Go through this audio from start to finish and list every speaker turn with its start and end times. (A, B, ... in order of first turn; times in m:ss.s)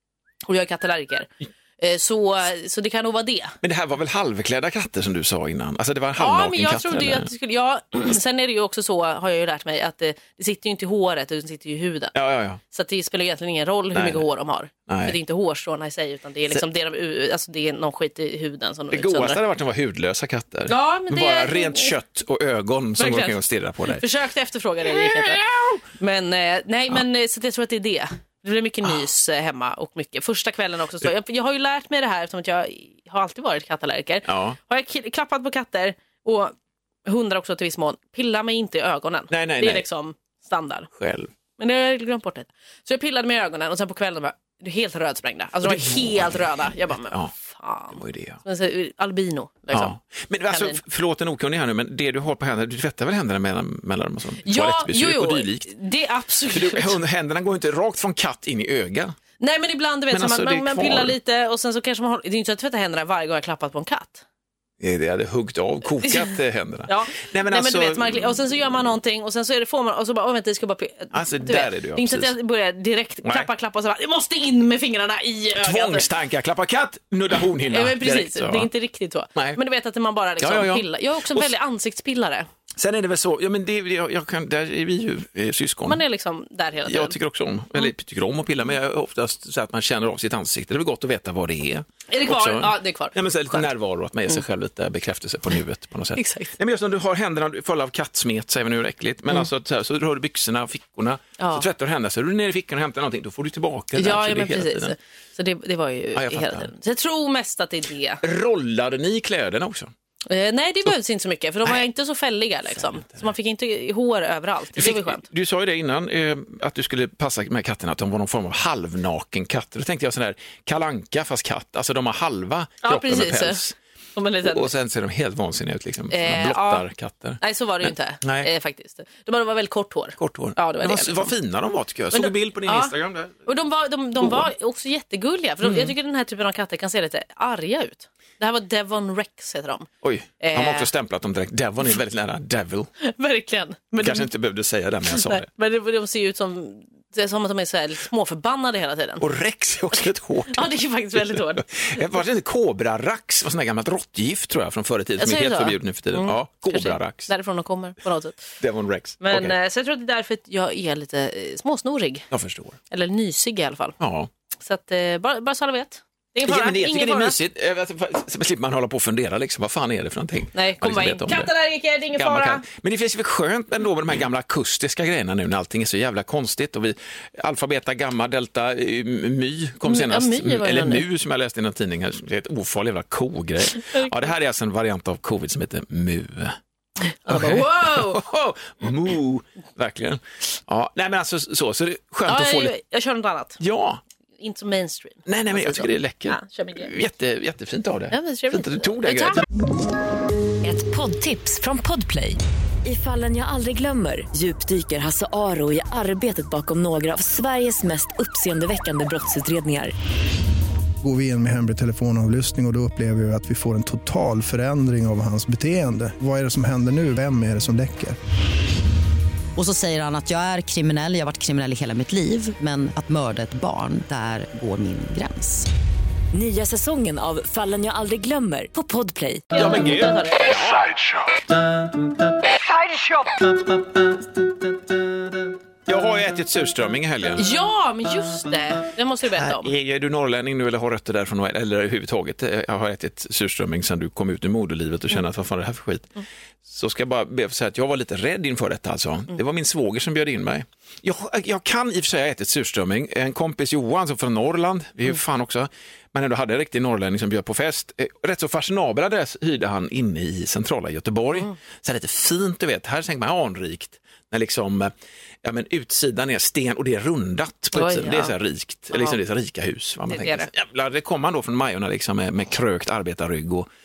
0:00.5-0:03.6 A
0:03.6-0:07.3 B
0:06.2-0:12.1 A
0:12.1-0:12.6 B
0:12.7-0:19.4 A
0:13.9-0:14.2 B
0:14.9-0:15.2 B
0:18.9-0:24.0 B
0:20.7-0:22.0 A
0:23.0-0:25.4 A
0:24.9-0:25.8 B
0:26.0-0:36.5 A
0:34.2-0:34.6 B
0:37.1-0:40.9 A
0:39.3-0:39.8 B
0:41.0-0:41.3 B
0:41.6-0:49.9 A
0:45.6-0:46.5 B
0:47.9-0:48.4 B
0:49.7-0:55.7 B
0:50.5-0:50.8 A
0:54.4-0:57.0 A
0:56.5-0:59.2 B
0:59.4-1:04.2 A
1:00.1-1:01.2 B
1:04.8-1:08.7 B
1:06.9-1:16.1 A
1:11.1-1:12.3 B
1:15.6-1:18.7 B
1:17.7-1:22.5 A
1:20.4-1:21.5 B
1:22.8-1:26.0 B
1:25.9-1:27.2 A
1:26.9-1:44.9 B
1:32.1-1:33.7 A
1:36.2-1:36.5 A
1:41.4-1:41.7 A
1:44.0-1:48.2 A
1:46.2-1:46.7 B
1:48.2-1:49.9 B
1:50.3-1:55.2 A
1:52.7-1:53.2 B
1:54.8-2:03.8 B
2:02.8-2:03.6 A
2:04.2-2:04.7 A
2:04.5-2:08.5 B
2:06.1-2:06.9 A
2:07.4-2:11.3 A
2:10.2-2:13.4 B
2:12.1-2:12.9 A
2:13.5-2:19.9 A
2:15.6-2:15.9 B
2:20.0-2:22.9 B
2:20.4-2:20.9 A
2:23.0-2:24.3 A
2:24.0-2:25.5 B
2:25.1-2:29.2 A
2:29.2-2:37.3 B
2:29.9-2:32.0 A
2:35.2-2:38.5 A
2:38.6-2:39.6 B
2:39.2-2:42.3 A
2:42.3-2:42.8 B
2:42.9-2:44.0 A
2:44.0-2:44.3 B
2:44.6-2:47.4 A
2:46.4-2:51.5 B
2:50.6-2:52.6 A
2:52.2-3:06.6 B
2:59.8-3:01.0 A
3:03.8-3:04.3 A
3:07.2-3:08.2 A
3:07.2-3:12.7 B
3:12.3-3:13.6 A
3:13.6-3:14.0 B
3:14.4-3:16.9 A
3:15.2-3:19.4 B
3:18.1-3:19.4 A
3:20.6-3:29.9 C
3:31.0-3:38.2 D
3:39.6-3:45.7 E
3:46.3-3:49.5 C
3:49.6-3:50.6 A
3:49.6-3:51.4 B
3:52.5-3:54.0 B
3:55.9-3:57.5 B
3:57.4-3:59.7 A
3:59.3-4:06.1 B
4:06.6-4:24.9 B
4:25.4-4:33.7 B
4:27.8-4:28.4 A
4:30.1-4:30.5 A